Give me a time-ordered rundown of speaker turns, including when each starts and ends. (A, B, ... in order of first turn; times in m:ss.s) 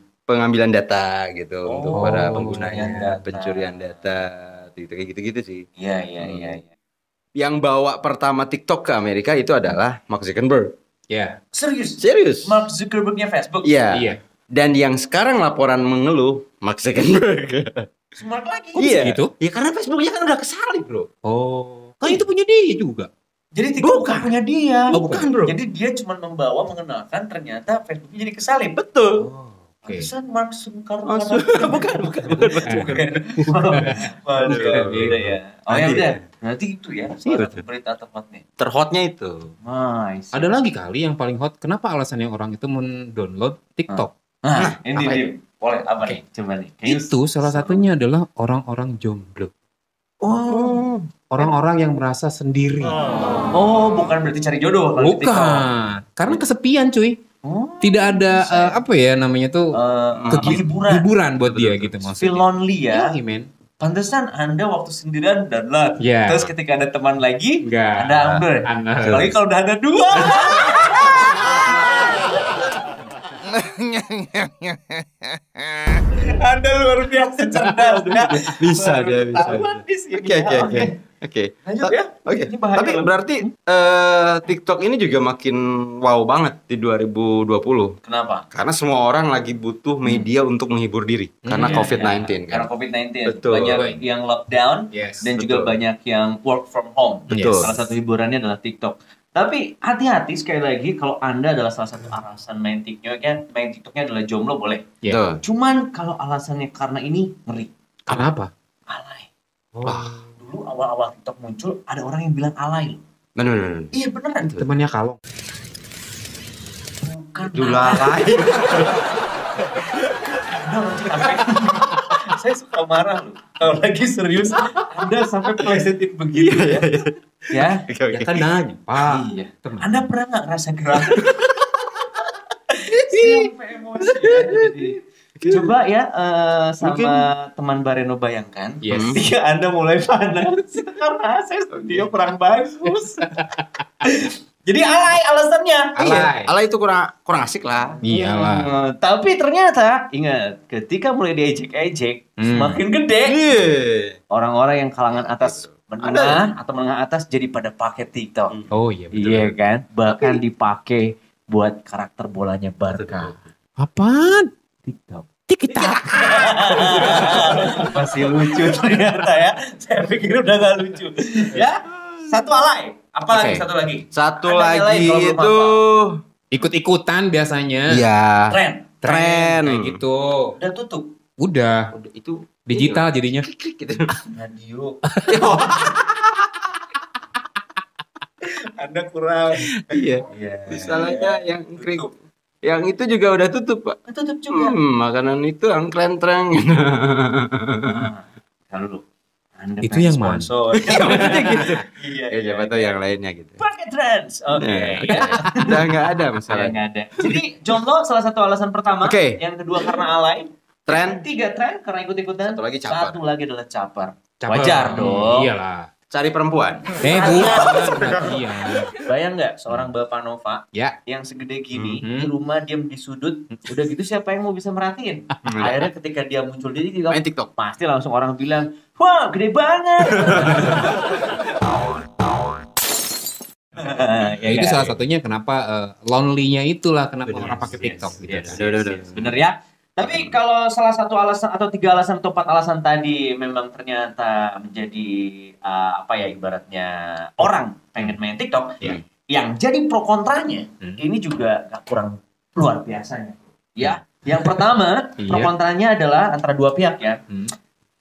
0:00.3-0:05.6 A
0:01.7-0:04.0 B
0:01.9-0:03.2 C
0:05.8-0:06.7 B
0:06.2-0:06.6 A
0:07.4-0:10.7 A
0:11.1-0:11.4 C
0:11.5-0:13.7 B
0:12.0-0:12.6 A
0:13.6-0:17.9 A
0:13.9-0:14.2 C
0:18.2-0:19.2 B
0:18.8-0:21.1 A
0:19.0-0:19.3 C
0:21.2-0:23.1 C
0:23.5-0:28.8 B
0:23.8-0:24.3 A
0:24.9-0:25.6 A
0:24.9-0:25.3 C
0:28.8-0:29.2 A
0:29.2-0:30.1 C
0:29.9-0:38.4 B
0:31.1-0:33.2 A
0:32.6-0:33.0 C
0:33.7-0:36.2 A
0:33.8-0:35.2 C
0:37.2-0:37.6 A
0:38.6-0:39.5 A
0:39.6-0:40.6 B
0:40.3-0:44.1 C
0:43.9-0:47.8 B
0:44.6-0:45.2 A
0:46.9-0:49.5 C
0:50.2-0:50.9 B
0:50.5-0:51.0 A
0:51.3-0:53.0 C
0:53.5-0:55.7 B
0:55.0-0:57.2 C
0:57.4-0:58.8 B
0:57.8-0:59.8 C
0:59.7-1:01.1 B
1:00.1-1:00.8 A
1:00.3-1:03.5 C
1:01.4-1:02.2 A
1:02.2-1:03.2 B
1:03.8-1:12.2 B
1:06.0-1:06.5 C
1:07.6-1:09.3 C
1:09.0-1:09.3 A
1:10.5-1:11.3 A
1:13.4-1:14.9 A
1:15.6-1:16.0 A
1:16.1-1:21.0 B
1:17.9-1:28.0 A
1:21.6-1:23.5 B
1:28.0-1:28.5 B
1:28.5-1:32.7 A
1:31.4-1:32.2 C
1:31.6-1:44.9 B
1:33.3-1:33.9 A
1:33.6-1:34.0 C
1:34.9-1:35.6 C
1:35.4-1:35.7 A
1:37.3-1:37.8 C
1:37.3-1:37.7 A
1:45.1-1:45.4 A
1:45.4-1:48.2 B
1:48.1-1:48.5 C
1:48.9-1:49.3 B
1:49.7-1:50.3 C
1:49.8-1:50.2 A
1:50.4-1:53.0 B
1:53.4-1:53.9 A
1:53.9-1:54.6 B
1:54.5-1:55.2 C
1:57.0-1:59.0 B
1:57.5-1:59.1 A
2:00.4-2:06.9 B
2:06.4-2:08.5 A
2:07.5-2:07.8 B
2:08.1-2:09.9 C
2:09.0-2:11.4 B
2:11.0-2:11.9 A
2:12.7-2:23.4 B
2:13.1-2:13.5 C
2:14.2-2:14.8 A
2:15.4-2:15.7 A
2:16.8-2:17.2 A
2:18.8-2:19.2 C
2:18.9-2:19.2 A
2:24.0-2:26.2 B
2:26.0-2:26.5 C
2:26.0-2:28.0 A
2:28.0-2:33.4 B
2:28.0-2:28.7 C
2:32.4-2:32.8 C
2:33.3-2:34.2 A
2:34.3-2:38.6 B
2:35.4-2:36.5 A
2:38.5-2:39.6 A
2:38.7-2:39.3 C
2:39.1-2:43.4 B
2:40.1-2:40.4 A
2:42.9-2:43.4 A
2:43.8-2:44.5 C
2:44.8-2:45.3 B
2:45.5-2:47.8 C
2:45.7-2:48.8 A
2:46.1-2:55.8 B
2:53.3-2:56.2 A
2:56.5-2:58.0 C
2:57.9-3:00.0 A
2:58.5-2:59.5 B
2:59.0-3:00.5 C
3:00.6-3:01.1 B
3:01.4-3:01.9 C
3:01.9-3:04.2 A
3:02.7-3:03.5 C
3:04.3-3:05.0 B
3:05.2-3:05.6 C
3:05.3-3:06.5 A
3:08.4-3:12.1 B
3:09.6-3:12.1 A
3:12.6-3:14.0 A
3:14.1-3:14.8 B
3:14.5-3:18.1 A
3:17.8-3:19.0 B
3:19.6-3:23.0 B
3:19.8-3:20.5 C
3:20.7-3:23.6 A
3:23.6-3:25.9 B
3:24.6-3:27.4 A
3:26.5-3:35.5 B
3:29.0-3:30.0 A
3:30.9-3:31.2 A
3:32.4-3:33.2 A
3:34.4-3:35.9 C
3:34.7-3:35.3 A
3:36.1-3:38.9 A
3:37.0-3:39.0 C
3:37.0-3:38.4 B
3:39.0-3:51.2 B
3:41.7-3:42.0 A
3:42.0-3:42.3 C
3:45.5-3:45.8 A
3:47.1-3:47.5 A
3:50.2-3:51.0 A
3:53.8-3:54.9 B
3:54.5-3:55.0 A
3:54.5-3:59.1 C
3:57.3-3:57.8 A
3:57.3-4:17.2 B
3:58.4-3:59.4 A
4:00.0-4:00.4 A
4:13.8-4:14.6 C
4:15.2-4:15.5 C